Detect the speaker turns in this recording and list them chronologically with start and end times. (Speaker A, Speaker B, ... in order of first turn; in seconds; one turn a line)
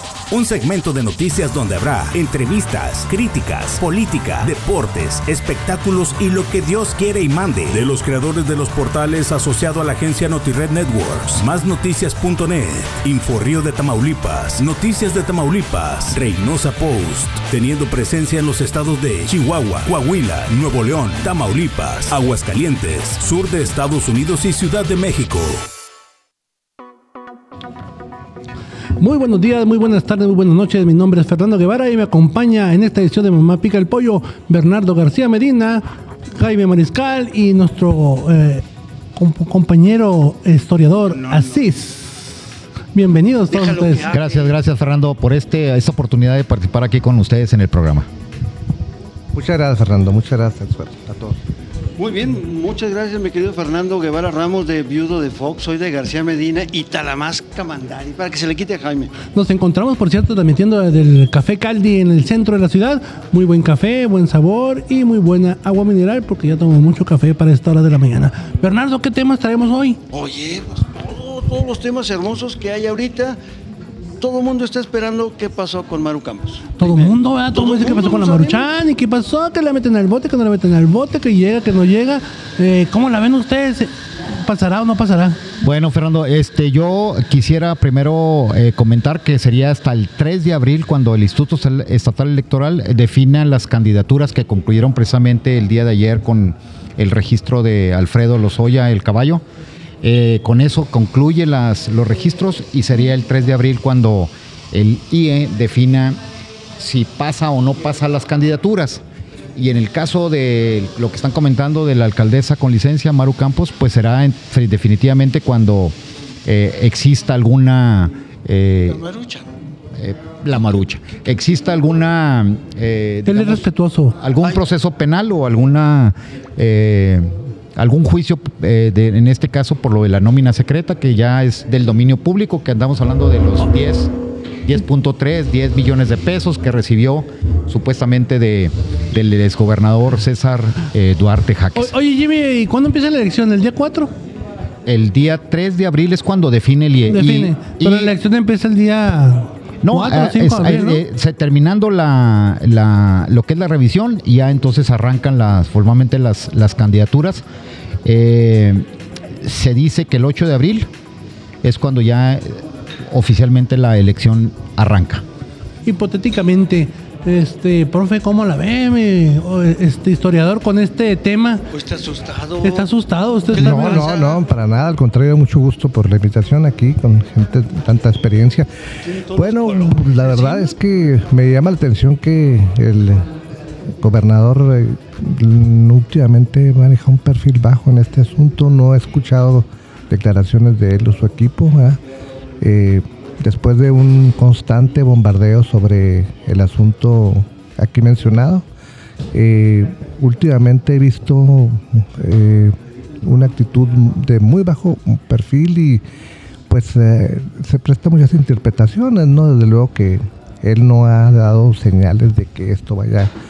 Speaker A: 0.3-25.6
Speaker B: 29.0-38.6
Speaker B: 39.1-42.3
Speaker C: 41.1-41.6
Speaker B: 42.9-44.1
Speaker C: 43.5-44.5
Speaker D: 44.1-48.1
Speaker E: 49.3-51.4
Speaker C: 52.0-59.1
Speaker B: 59.3-70.0
Speaker C: 70.1-73.4
Speaker C: 74.2-78.7
Speaker B: 76.8-85.4
Speaker D: 85.6-99.4
Speaker D: 100.0-106.2
Speaker D: 106.8-109.0
Speaker D: 109.5-115.9
Speaker D: 116.4-119.0
Speaker C: 118.8-119.5
Speaker D: 120.0-123.6
Speaker B: 123.2-124.2
Speaker D: 124.2-134.1
Speaker D: 134.6-141.9
Speaker B: 141.7-144.1
Speaker D: 144.8-148.2
Speaker B: 147.1-151.0
Speaker D: 149.8-157.4
Speaker D: 158.0-158.8
Speaker D: 159.4-160.9
Speaker D: 161.6-165.2
Speaker B: 165.8-171.7
Speaker C: 171.7-172.9
Speaker B: 172.6-174.1
Speaker E: 173.5-178.7
Speaker C: 173.5-174.4
Speaker C: 179.0-180.8
Speaker E: 179.3-183.3
Speaker E: 184.0-192.0
Speaker E: 192.6-198.6
Speaker E: 199.3-206.0
Speaker E: 206.7-213.3